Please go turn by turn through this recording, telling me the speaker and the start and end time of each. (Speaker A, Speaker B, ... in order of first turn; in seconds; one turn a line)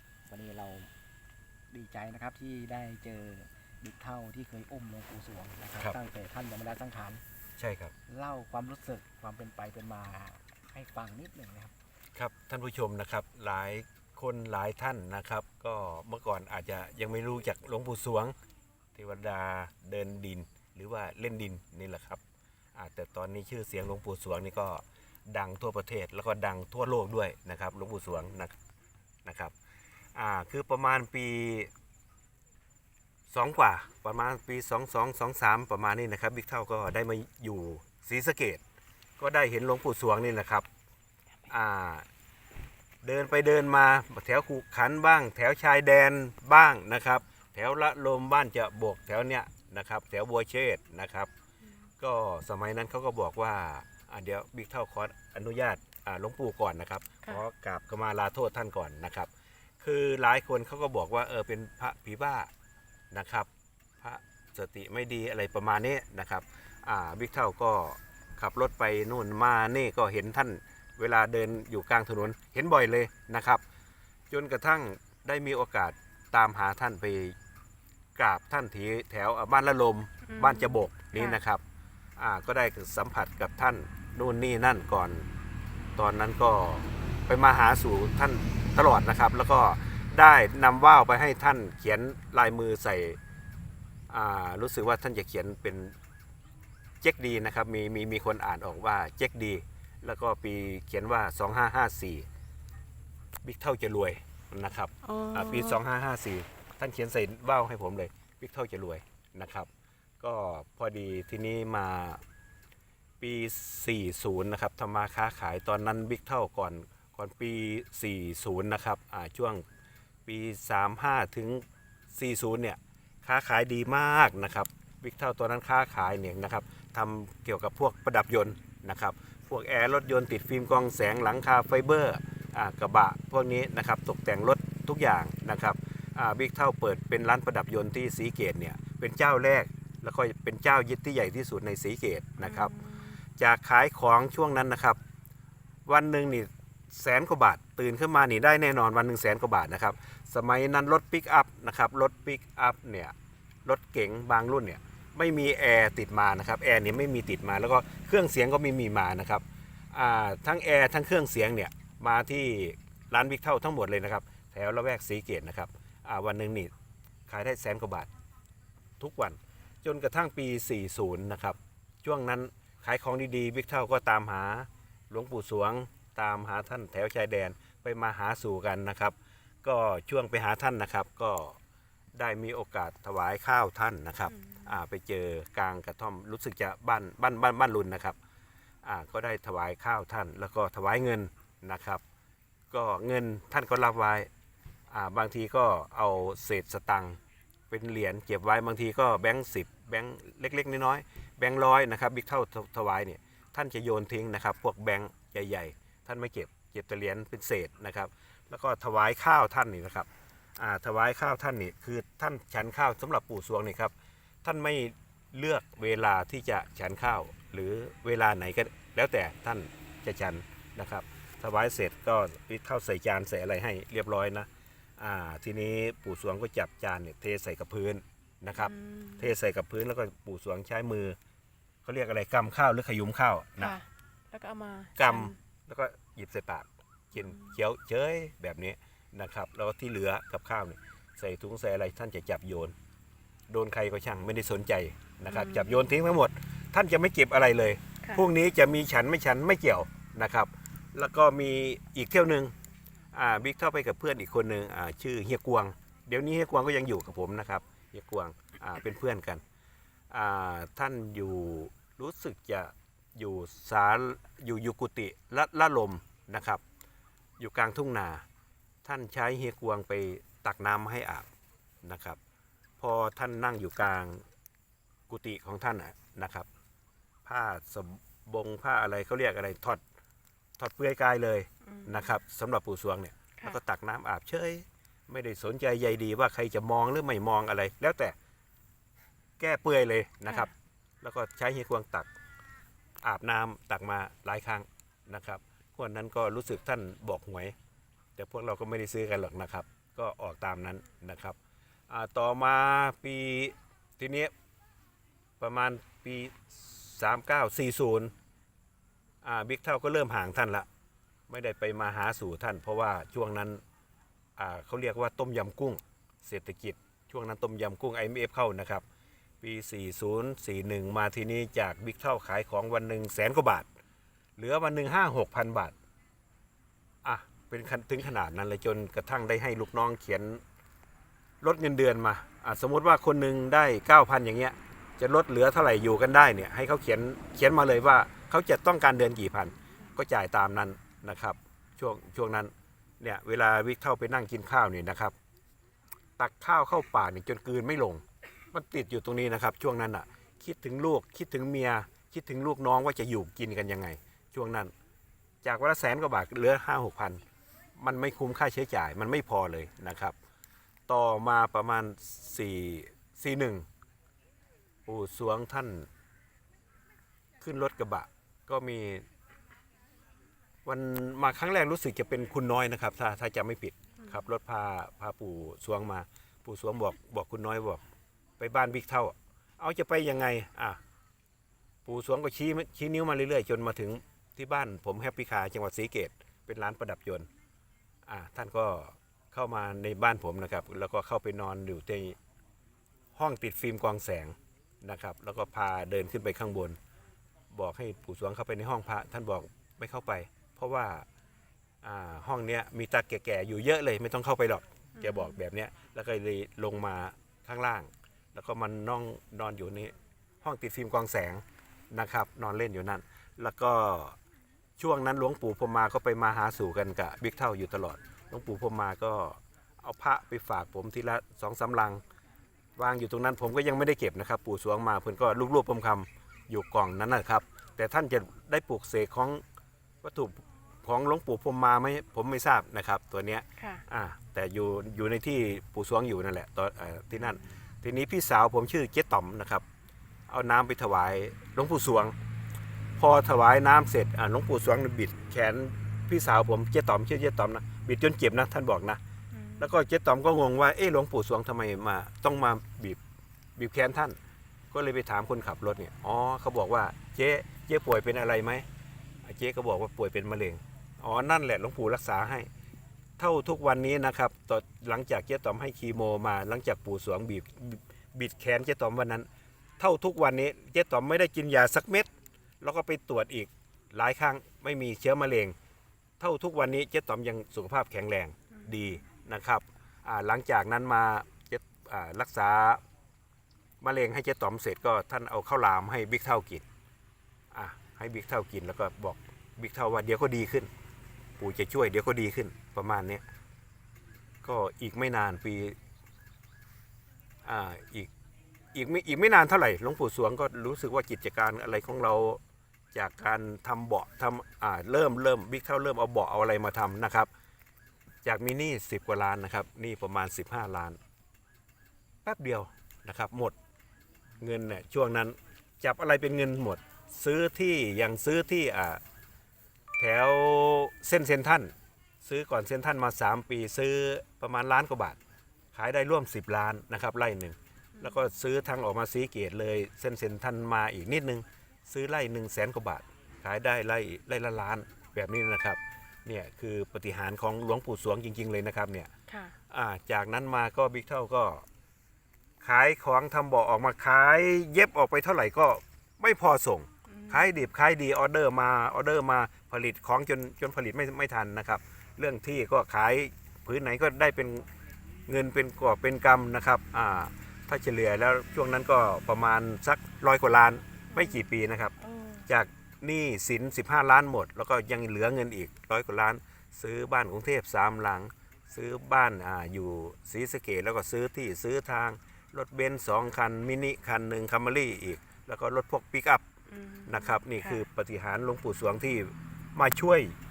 Speaker A: 0.3-0.9
Speaker A: 1.7-7.2
Speaker B: 7.6-7.9
Speaker A: 8.1-11.7
Speaker B: 12.2-18.3
Speaker B: 18.9-22.2
Speaker B: 22.8-28.5
Speaker B: 29.2-29.5
Speaker B: 30.1-31.7
Speaker B: 33.3-38.6
Speaker B: 39.2-40.7
Speaker B: 41.5-42.1
Speaker B: 43.0-51.3
Speaker B: 52.0-59.3
Speaker B: 59.8-62.5
Speaker B: 63.1-63.5
Speaker B: 64.0-73.6
Speaker B: 74.3-77.3
Speaker B: 78.2-81.6
Speaker C: 80.3-81.4
Speaker B: 82.2-85.3
Speaker B: 86.0-93.2
Speaker B: 94.1-96.0
Speaker B: 97.0-102.3
Speaker B: 103.4-109.7
Speaker C: 105.0-105.8
Speaker B: 110.2-112.2
Speaker B: 113.2-119.6
Speaker B: 120.2-121.6
Speaker B: 122.1-142.7
Speaker C: 142.4-143.2
Speaker B: 143.4-145.0
Speaker B: 145.9-153.1
Speaker B: 153.7-166.7
Speaker B: 167.3-168.1
Speaker B: 169.0-181.6
Speaker B: 182.2-188.2
Speaker C: 184.3-184.8
Speaker B: 188.8-192.0
Speaker B: 192.7-194.3
Speaker B: 194.9-197.2
Speaker B: 197.7-213.9
Speaker B: 214.4-231.2
Speaker C: 228.6-229.3
Speaker B: 231.8-233.8
Speaker C: 233.6-235.4
Speaker B: 235.0-242.7
Speaker C: 237.1-237.5
Speaker B: 243.5-252.5
Speaker C: 245.2-245.8
Speaker B: 253.1-259.4
Speaker B: 260.1-266.6
Speaker B: 267.4-268.2
Speaker B: 268.9-271.3
Speaker B: 271.8-272.2
Speaker B: 272.8-274.2
Speaker B: 275.1-276.5
Speaker B: 277.3-279.8
Speaker B: 280.6-288.1
Speaker C: 281.6-282.2
Speaker B: 289.4-292.1
Speaker B: 293.0-297.5
Speaker B: 298.2-301.4
Speaker B: 301.9-304.3
Speaker B: 305.4-308.1
Speaker B: 309.2-310.7
Speaker B: 311.3-313.6
Speaker B: 314.4-318.8
Speaker B: 319.4-323.7
Speaker B: 324.4-325.8
Speaker B: 327.0-330.4
Speaker B: 331.4-345.1
Speaker B: 346.2-354.7
Speaker B: 355.4-357.2
Speaker B: 357.8-360.1
Speaker B: 360.9-363.7
Speaker B: 364.9-365.9
Speaker B: 367.4-369.1
Speaker B: 370.6-377.8
Speaker B: 378.4-380.8
Speaker B: 381.9-387.3
Speaker B: 388.1-392.2
Speaker B: 393.2-396.8
Speaker B: 397.5-401.1
Speaker B: 401.8-414.2
Speaker C: 405.0-405.4
Speaker B: 414.8-422.0
Speaker B: 422.8-429.4
Speaker B: 430.0-439.6
Speaker C: 433.6-433.8
Speaker B: 440.3-442.1
Speaker B: 443.0-449.0
Speaker C: 449.3-449.8
Speaker B: 449.6-453.0
Speaker B: 453.6-454.2
Speaker B: 454.7-458.6
Speaker B: 459.2-462.5
Speaker B: 463.2-469.3
Speaker B: 469.8-472.1
Speaker B: 472.6-475.5
Speaker B: 476.2-482.8
Speaker C: 478.5-479.0
Speaker B: 483.8-486.6
Speaker B: 487.5-490.7
Speaker B: 491.4-493.2
Speaker B: 494.4-495.8
Speaker B: 497.4-498.1
Speaker B: 498.7-502.4
Speaker B: 502.9-507.3
Speaker B: 508.2-511.0
Speaker B: 512.2-513.5
Speaker B: 514.4-519.0
Speaker B: 520.0-521.7
Speaker B: 522.2-525.2
Speaker B: 525.7-539.1
Speaker C: 528.0-528.2
Speaker C: 539.3-539.5
Speaker B: 539.7-541.6
Speaker B: 542.6-554.7
Speaker C: 547.1-547.5
Speaker B: 555.3-561.9
Speaker C: 561.1-561.5
Speaker C: 562.0-562.5
Speaker B: 562.5-576.4
Speaker C: 576.7-577.9
Speaker B: 577.1-580.4